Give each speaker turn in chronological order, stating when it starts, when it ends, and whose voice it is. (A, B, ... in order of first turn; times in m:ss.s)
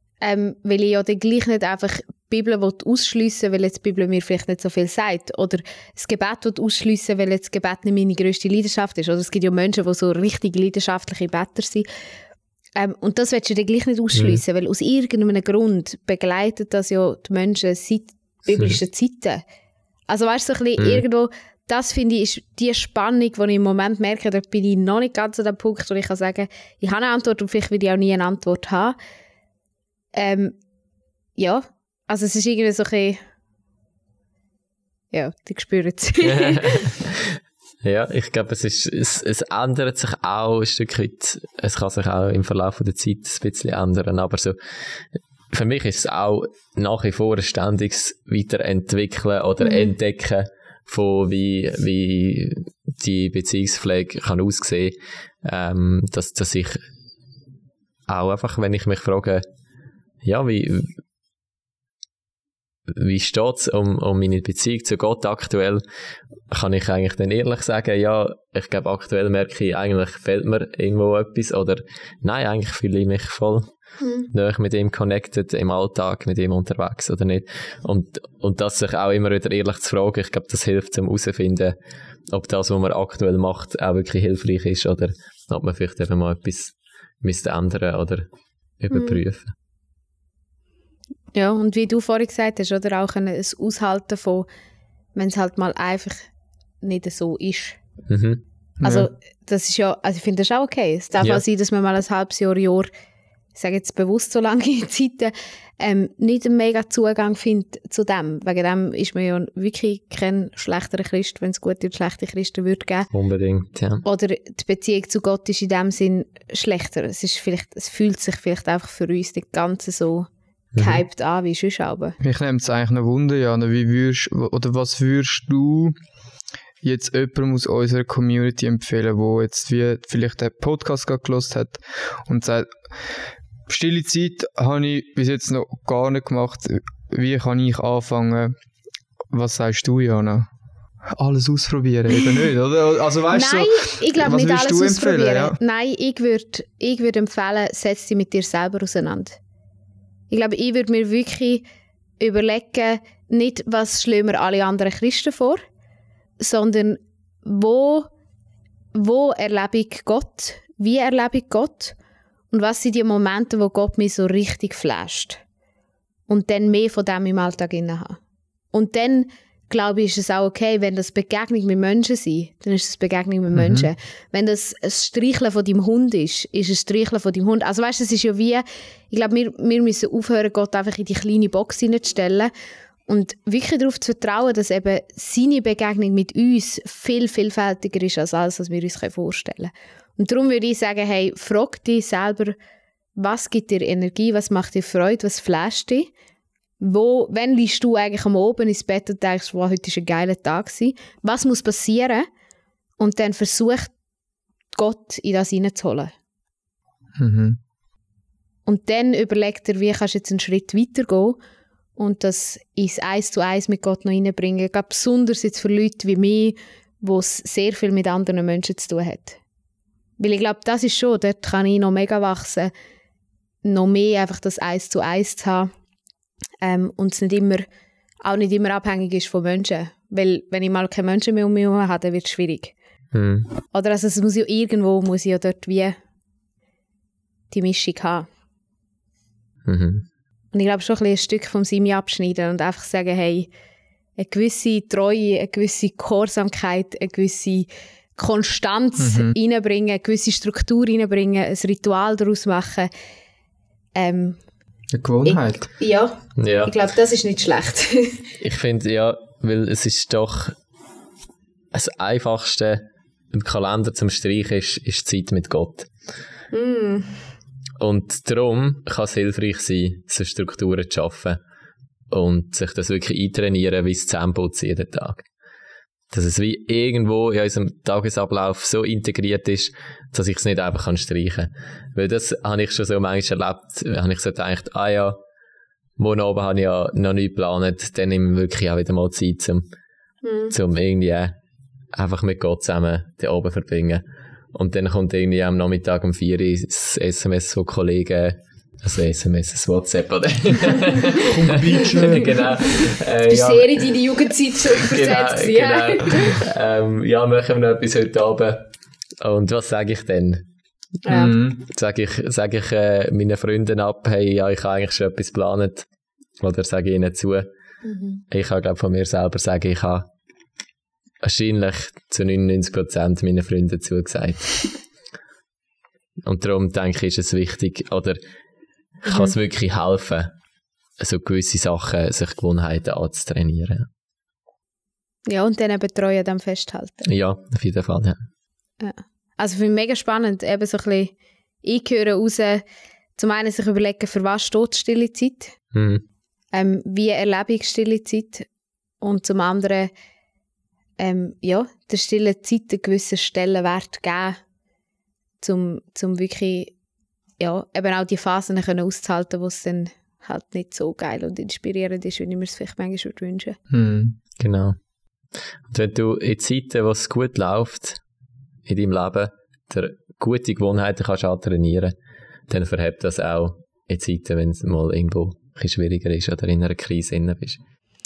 0:00.2-0:11.8 A
0:12.8-0:19.4 A
0:14.1-0:14.4 B
0:20.1-0:29.0 A
0:20.8-0:21.0 B
0:30.1-0:30.5 A
0:31.4-0:33.2 A
0:35.1-0:36.8 A
0:36.2-0:37.3 B
0:37.8-0:44.6 B
0:45.5-0:56.8 B
0:49.6-0:49.9 A
0:58.1-0:59.4 B
1:00.2-1:01.0 B
1:02.9-1:05.8 B
1:06.5-1:13.7 B
1:14.0-1:14.3 A
1:14.3-1:21.8 B
1:22.3-1:28.3 B
1:28.8-1:29.5 B
1:28.9-1:29.2 A
1:31.3-1:34.5 A
1:35.1-1:36.3 A
1:36.8-1:37.8 A
1:38.1-1:38.4 B
1:38.8-1:39.1 C
1:38.8-1:42.9 A
1:43.5-1:53.1 A
1:53.1-1:54.0 B
1:54.0-2:02.2 A
2:00.7-2:01.0 B
2:02.2-2:05.9 C
2:06.8-2:12.8 C
2:13.7-2:18.5 C
2:19.3-2:20.5 C
2:21.2-2:25.6 C
2:23.3-2:29.4 A
2:30.3-2:31.6 A
2:32.2-2:35.6 A
2:36.4-2:38.1 A
2:38.9-2:42.0 A
2:42.5-2:45.4 A
2:46.3-2:48.2 A
2:48.7-3:02.5 A
2:53.5-2:53.9 C
3:03.1-3:12.6 A
3:13.2-3:16.1 A
3:16.8-3:22.3 A
3:23.0-3:23.9 A
3:24.7-3:26.1 A
3:27.2-3:27.6 C
3:28.6-3:31.4 A
3:32.0-3:39.4 A
3:40.2-3:42.7 A
3:43.6-3:45.7 A
3:46.6-3:47.7 A
3:48.2-3:52.7 A
3:53.1-3:53.5 B
3:53.7-3:56.0 A
3:57.5-3:58.3 A
3:59.6-4:00.0 B
4:00.5-4:03.5 A
4:04.2-4:12.9 A
4:09.0-4:09.3 C
4:14.0-4:14.4 A
4:14.9-4:15.7 C
4:15.2-4:18.2 A
4:16.4-4:16.7 B
4:18.4-4:20.6 B
4:21.7-4:25.9 B
4:26.5-4:27.1 A
4:27.8-4:31.4 B
4:32.1-4:35.2 B
4:36.1-4:45.2 B
4:46.0-4:49.6 B
4:50.2-4:50.5 A
4:50.5-4:51.4 B
4:51.9-5:03.9 B
5:01.2-5:02.4 C
5:03.3-5:06.4 A
5:04.7-5:08.7 B
5:09.2-5:10.4 B
5:11.0-5:11.3 A
5:11.1-5:11.6 C
5:11.6-5:15.8 B
5:16.4-5:17.5 B
5:17.8-5:18.2 A
5:18.3-5:20.1 B
5:21.2-5:24.6 B
5:26.2-5:28.2 B
5:29.0-5:30.3 B
5:29.1-5:29.3 A
5:31.0-5:33.9 B
5:35.3-5:37.0 A
5:37.0-5:38.2 B
5:38.8-5:42.6 A
5:43.2-5:45.5 A
5:45.7-5:46.0 B
5:46.5-5:48.5 A
5:49.0-5:49.9 A
5:51.0-5:54.4 A
5:55.4-5:56.7 A
5:57.4-6:03.6 A
6:03.7-6:04.2 C
6:04.4-6:04.8 B
6:05.7-6:08.0 B
6:08.6-6:11.9 B
6:12.5-6:17.6 B